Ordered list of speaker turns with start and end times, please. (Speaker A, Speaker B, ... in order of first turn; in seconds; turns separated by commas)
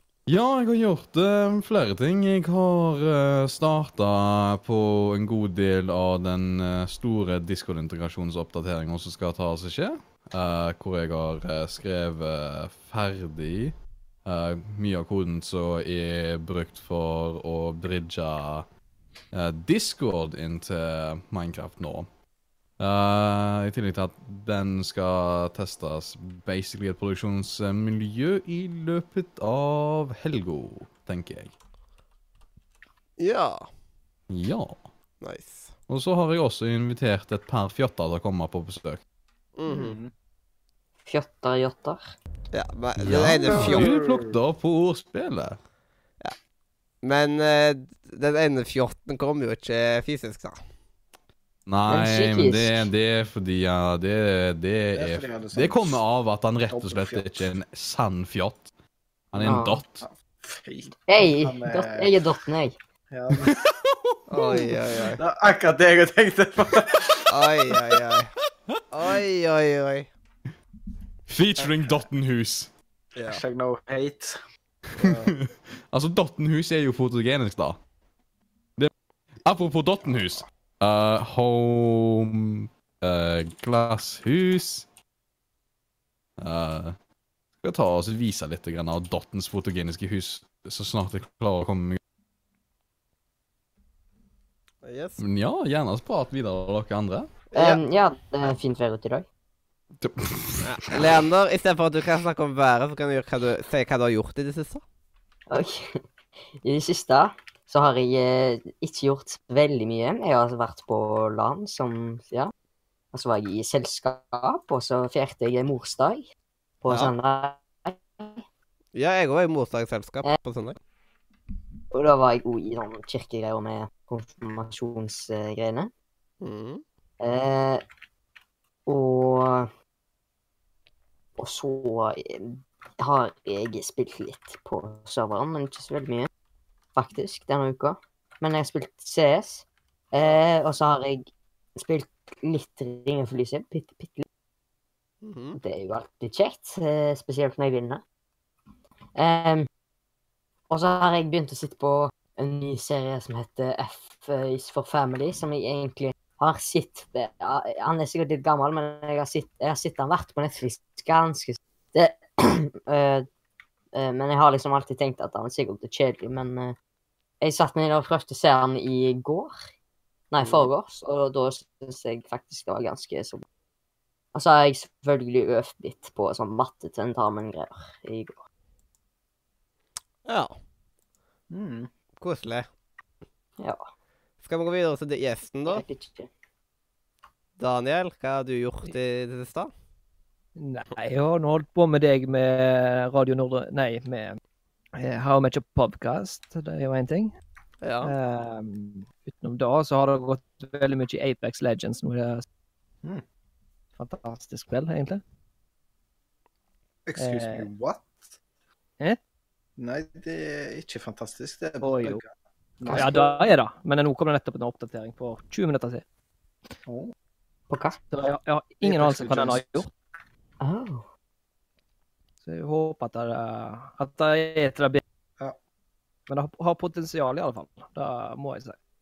Speaker A: 0.3-18.6, Speaker A: 19.3-22.1, Speaker A: 22.8-31.5, Speaker B: 33.2-33.7, Speaker A: 34.3-34.9, Speaker B: 35.2-35.7, Speaker A: 35.9-39.0, Speaker B: 39.6-40.0, Speaker C: 39.7-40.1, Speaker D: 41.0-42.1, Speaker B: 42.5-43.9, Speaker A: 43.0-45.6, Speaker C: 43.4-44.4, Speaker B: 47.0-50.6, Speaker A: 51.7-58.7, Speaker D: 51.9-52.9, Speaker C: 54.9-56.0, Speaker C: 56.7-57.5, Speaker A: 59.3-60.0, Speaker D: 59.4-59.8, Speaker C: 60.0-62.1, Speaker D: 61.1-62.8, Speaker C: 63.1-63.6, Speaker A: 63.3-64.0, Speaker B: 64.3-65.2, Speaker C: 64.3-67.2, Speaker B: 67.3-68.3, Speaker B: 68.9-70.1, Speaker A: 71.3-72.7, Speaker B: 73.2-73.4, Speaker C: 73.3-74.4, Speaker C: 75.0-75.3, Speaker A: 75.0-77.8, Speaker A: 79.4-84.9, Speaker A: 86.4-87.0, Speaker A: 87.6-92.0, Speaker B: 94.8-95.2, Speaker A: 95.2-97.3, Speaker D: 97.5-99.2, Speaker A: 100.0-101.0, Speaker B: 100.6-104.8, Speaker D: 105.5-106.0, Speaker D: 106.6-112.5, Speaker D: 113.1-116.3, Speaker D: 116.8-118.4, Speaker B: 118.9-120.8, Speaker D: 121.9-125.9, Speaker B: 126.4-126.8, Speaker D: 127.2-127.8, Speaker D: 128.9-129.7, Speaker D: 131.4-136.3, Speaker D: 136.9-144.2, Speaker B: 145.2-145.6, Speaker D: 145.5-148.0, Speaker D: 149.1-149.7, Speaker D: 150.7-163.2, Speaker D: 163.9-166.7, Speaker D: 167.4-169.6, Speaker D: 170.3-173.4, Speaker B: 170.4-170.7, Speaker D: 174.3-178.4, Speaker B: 180.2-180.5, Speaker C: 181.5-181.9, Speaker B: 182.2-182.7, Speaker B: 184.4-185.8, Speaker D: 185.7-186.3, Speaker B: 187.6-189.7, Speaker E: 190.6-194.4, Speaker E: 194.9-197.3, Speaker B: 197.8-198.1, Speaker E: 198.0-202.4, Speaker E: 204.0-205.2, Speaker C: 207.1-208.3, Speaker E: 207.2-207.7, Speaker C: 209.8-212.3, Speaker E: 211.8-212.2, Speaker C: 212.8-213.5, Speaker E: 212.9-216.0, Speaker C: 216.8-217.1, Speaker D: 217.7-218.0, Speaker E: 218.1-219.9, Speaker C: 218.8-219.9, Speaker D: 220.6-221.0, Speaker E: 222.4-225.0, Speaker E: 226.3-228.8